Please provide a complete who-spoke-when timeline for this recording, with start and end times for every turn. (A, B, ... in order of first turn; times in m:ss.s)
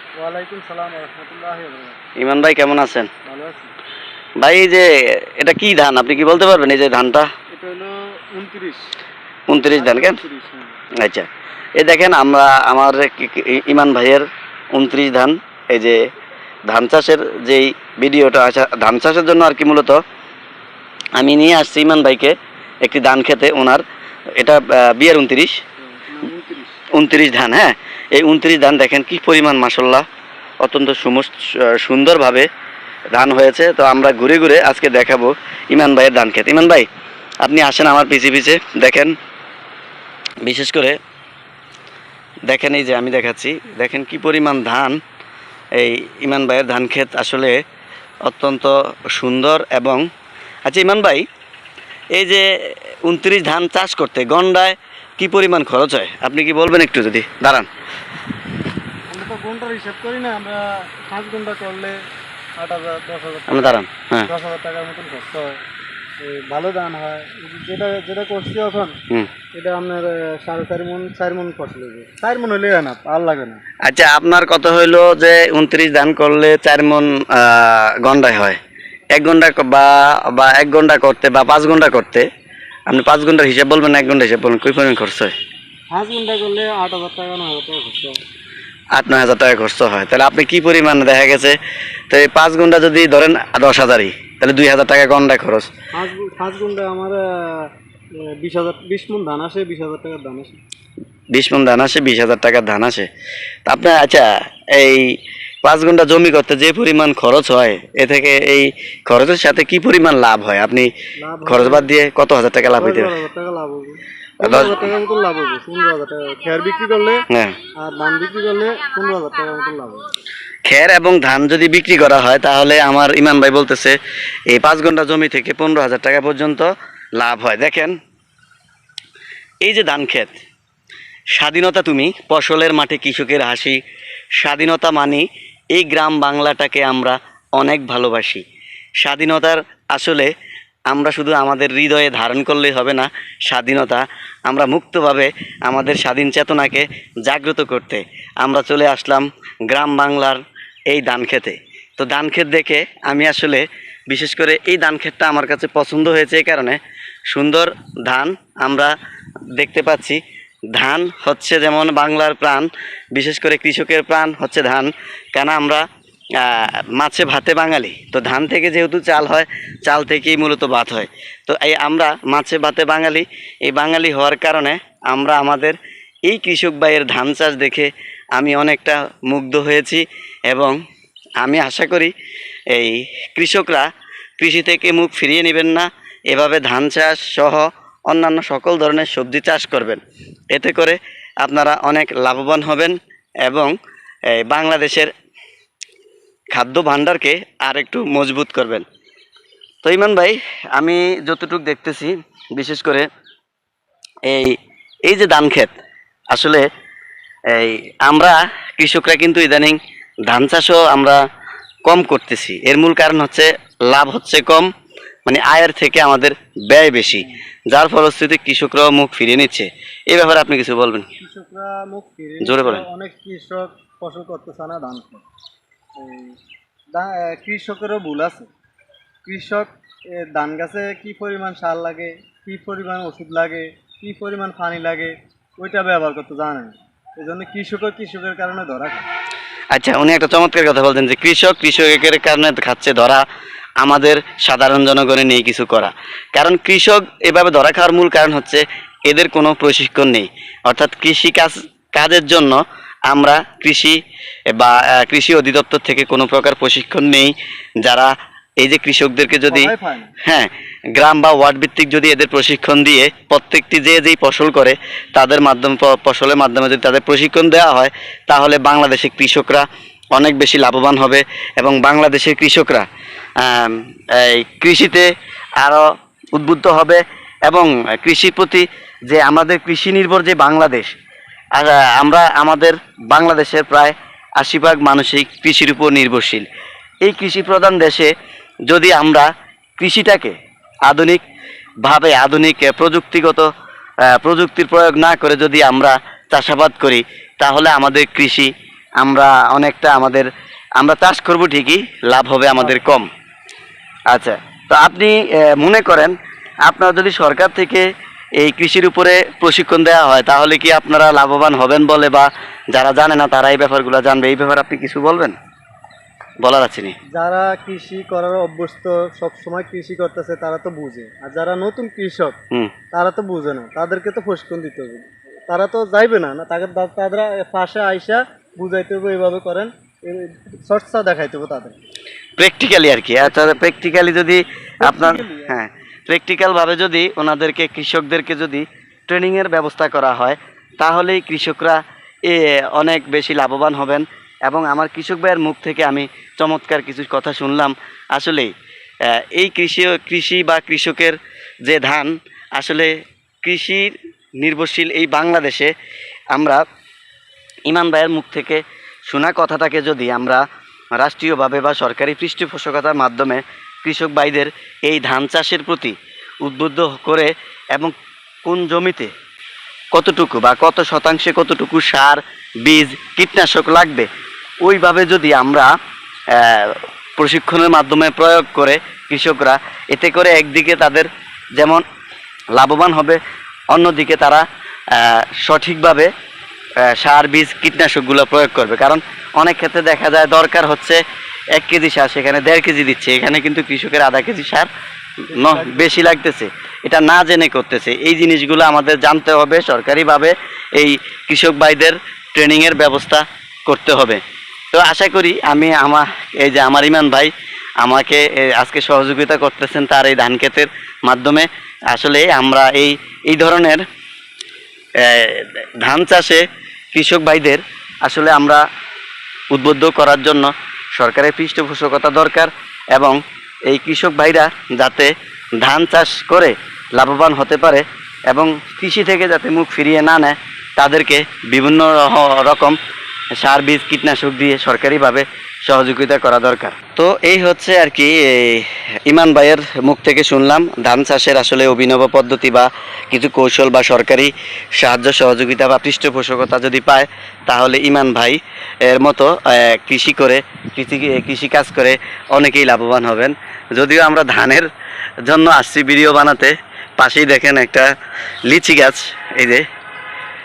0:00.2-0:02.0 A
0:02.2-0:03.1 B
0:03.2-0:03.7 A
0:04.4-0:07.3 B
0:07.5-0:08.9 A
0:09.5-0:10.2 B
0:09.7-0:10.8 A
0:11.0-0:16.0 B
0:16.7-0:20.0 B
0:21.2-0:23.8 B
0:24.4-0:25.6 B
0:26.0-0:26.8 A
0:26.9-0:30.0 B
0:30.6-0:32.5 B
0:33.1-0:36.9 B
0:37.4-0:39.1 B
0:40.4-0:41.0 B
0:42.5-0:45.0 B
0:45.7-0:47.6 B
0:48.2-0:50.1 B
0:50.6-0:51.2 B
0:52.1-0:57.7 B
0:59.1-1:02.0 A
1:02.6-1:05.6 A
1:03.5-1:04.3 B
1:06.2-1:08.9 A
1:09.6-1:13.6 A
1:13.8-1:18.6 B
1:19.1-1:22.3 B
1:22.9-1:25.3 B
1:25.9-1:28.2 A
1:28.9-1:31.6 B
1:32.1-1:35.7 B
1:35.9-1:37.7 A
1:38.4-1:40.6 A
1:41.3-1:43.1 B
1:43.6-1:50.9 B
1:51.2-1:51.9 A
1:51.5-1:53.2 B
1:52.8-1:57.2 A
1:54.4-1:54.8 B
1:57.3-1:57.5 B
1:57.8-2:00.0 A
2:00.6-2:04.0 B
2:04.5-2:08.0 B
2:09.6-2:10.3 B
2:11.4-2:13.8 B
2:14.4-2:18.4 B
2:19.0-2:20.3 B
2:20.9-2:36.8 B
2:37.3-2:38.9 B
2:39.5-2:40.2 B
2:40.7-3:00.8 B
3:01.4-3:02.1 B
3:02.7-3:13.7 B
3:14.3-3:15.1 B
3:16.5-3:18.8 B
3:19.8-3:23.1 B
3:24.3-3:25.7 B
3:26.3-3:26.7 B
3:27.5-3:31.2 B
3:31.8-3:34.7 B
3:35.2-3:41.1 B
3:41.2-3:45.2 A
3:42.4-3:42.8 B
3:46.0-3:46.4 A
3:46.9-3:48.5 A
3:49.2-3:59.1 A
3:59.7-4:03.2 B
4:03.8-4:14.0 B
4:14.5-4:19.7 B
4:19.5-4:20.1 A
4:20.2-4:32.8 B
4:33.4-4:35.1 B
4:35.6-4:40.9 B
4:41.6-4:46.4 B
4:47.0-4:48.1 B
4:48.7-4:49.3 B
4:49.8-4:50.3 B
4:50.9-4:51.2 B
4:51.8-4:53.5 B
4:54.1-5:03.1 B
5:04.1-5:15.3 B
5:16.4-5:17.0 B
5:17.1-5:22.4 A
5:22.9-5:31.8 A
5:32.4-5:48.5 B
5:33.2-5:33.8 A
5:34.8-5:35.5 A
5:49.0-5:52.9 B
5:53.4-5:55.7 B
5:56.3-5:56.6 B
5:57.6-6:00.4 B
6:01.0-6:07.9 B
6:08.4-6:09.1 B
6:09.9-6:14.1 B
6:14.6-6:15.7 B
6:16.3-6:21.8 B
6:22.5-6:23.2 B
6:23.7-6:26.1 B
6:26.8-6:31.0 B
6:31.6-6:34.7 B
6:35.3-6:36.1 A
6:35.3-6:44.2 B
6:44.7-6:53.8 B
6:55.0-6:58.6 B
6:59.5-7:12.8 B
7:13.4-7:34.7 B
7:35.2-7:37.9 B
7:38.4-7:39.6 B